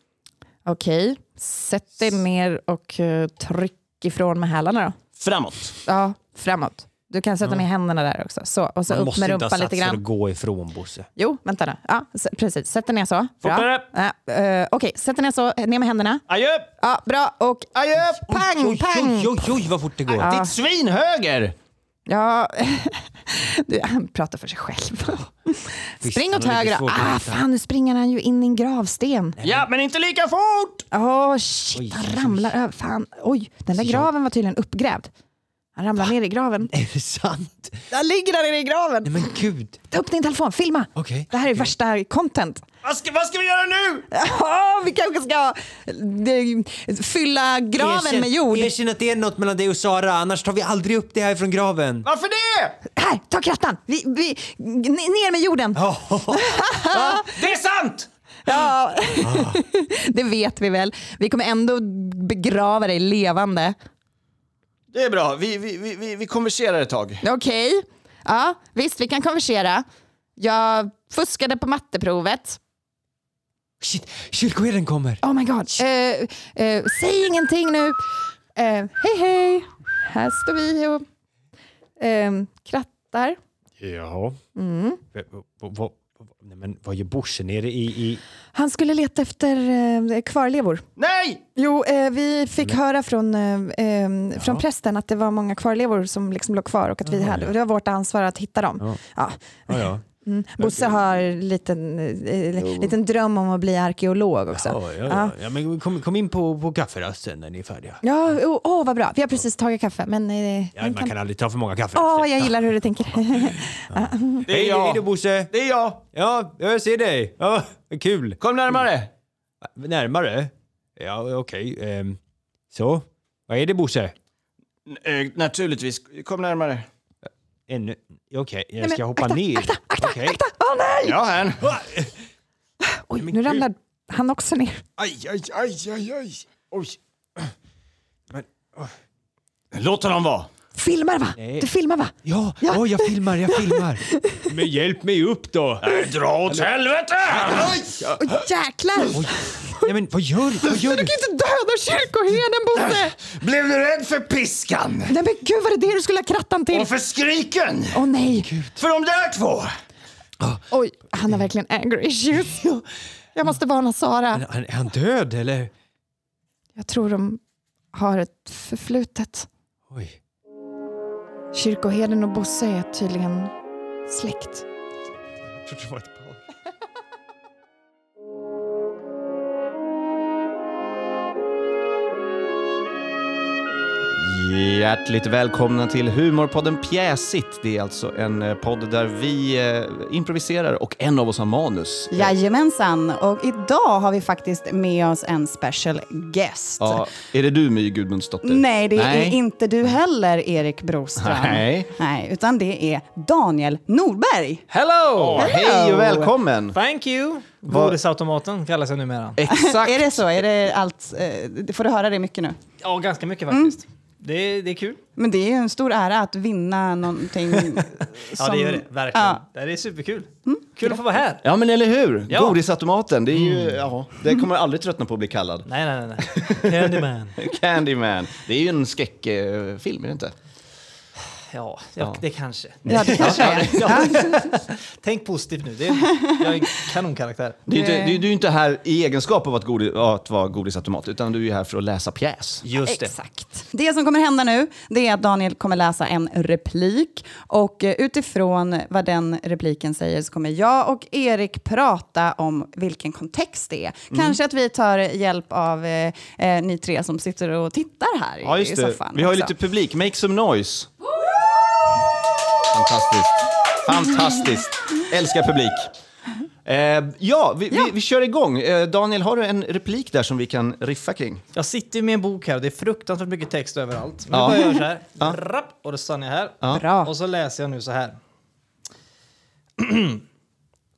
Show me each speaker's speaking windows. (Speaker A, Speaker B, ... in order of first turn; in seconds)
Speaker A: 0.7-5.0, 5.8-10.0, 11.2-16.2, 16.8-17.7, 18.2-19.6, 20.1-20.6, 22.1-29.4, 30.9-35.1, 35.8-36.7, 37.9-42.6, 44.1-48.7, 52.9-57.3, 58.5-63.8, 67.2-69.8, 70.4-72.6, 75.2-81.0, 82.0-83.4, 84.5-85.0, 88.5-90.8, 91.5-105.3, 108.0-111.1, 111.9-114.5, 128.8-131.2, 132.8-134.8, 140.7-144.5, 148.1-149.9, 150.7-153.1, 155.1-156.9, 157.9-158.5, 160.7-162.8, 163.3-164.4, 166.8-167.4, 167.9-169.5, 171.5-173.5, 174.1-174.7, 276.7-277.1
Speaker B: 5.2-5.8, 13.4-13.8, 16.3-16.7, 17.7-18.3, 20.1-21.5, 29.4-30.8, 42.8-44.1, 52.0-52.8, 56.9-58.1, 64.9-67.2, 91.0-91.4, 114.5-116.0, 118.4-119.1, 124.9-126.9, 131.0-131.7, 139.7-140.5, 145.8-148.2, 152.8-155.1, 156.7-158.0, 158.8-159.7, 184.1-192.3, 196.8-199.4, 201.2-201.9, 205.2-206.8, 207.7-208.0, 209.4-210.4, 221.4-225.7, 226.2-230.3, 232.9-234.2, 237.7-242.7, 254.1-254.4, 258.4-260.9, 262.7-265.9, 266.6-271.4, 274.3-275.4
Speaker C: 8.9-11.1, 18.3-20.3, 26.0-27.4, 29.4-29.7, 31.7-32.5, 33.8-34.1, 36.7-37.8, 39.0-39.8, 41.0-41.7, 47.7-52.1, 55.8-56.7, 59.2-59.6, 73.8-75.2, 83.8-84.4, 85.1-88.2, 94.4-94.6, 97.0-97.5, 99.7-100.0, 104.5-108.0, 110.8-112.7, 113.3-115.5, 116.1-118.4, 119.6-122.2, 122.7-124.1, 127.7-130.4, 131.6-132.1, 133.2-133.7, 135.0-137.5, 138.3-138.9, 141.4-141.7, 142.2-146.7, 147.3-148.1, 149.1-151.1, 158.2-158.8, 164.3-165.7, 169.9-170.2, 175.6-176.4, 242.6-243.1
Speaker D: 192.1-197.0, 198.4-204.6, 205.3-206.3, 209.4-212.6, 213.5-213.7, 215.2-219.4, 220.4-220.9, 232.9-234.6, 236.0-236.4, 237.7-238.2, 242.8-259.5
Speaker E: 204.7-205.5, 206.7-209.4, 212.8-215.0, 218.0-221.4, 222.3-222.6, 223.3-223.8, 225.7-227.4, 231.5-237.6, 271.5-278.2, 279.8-280.2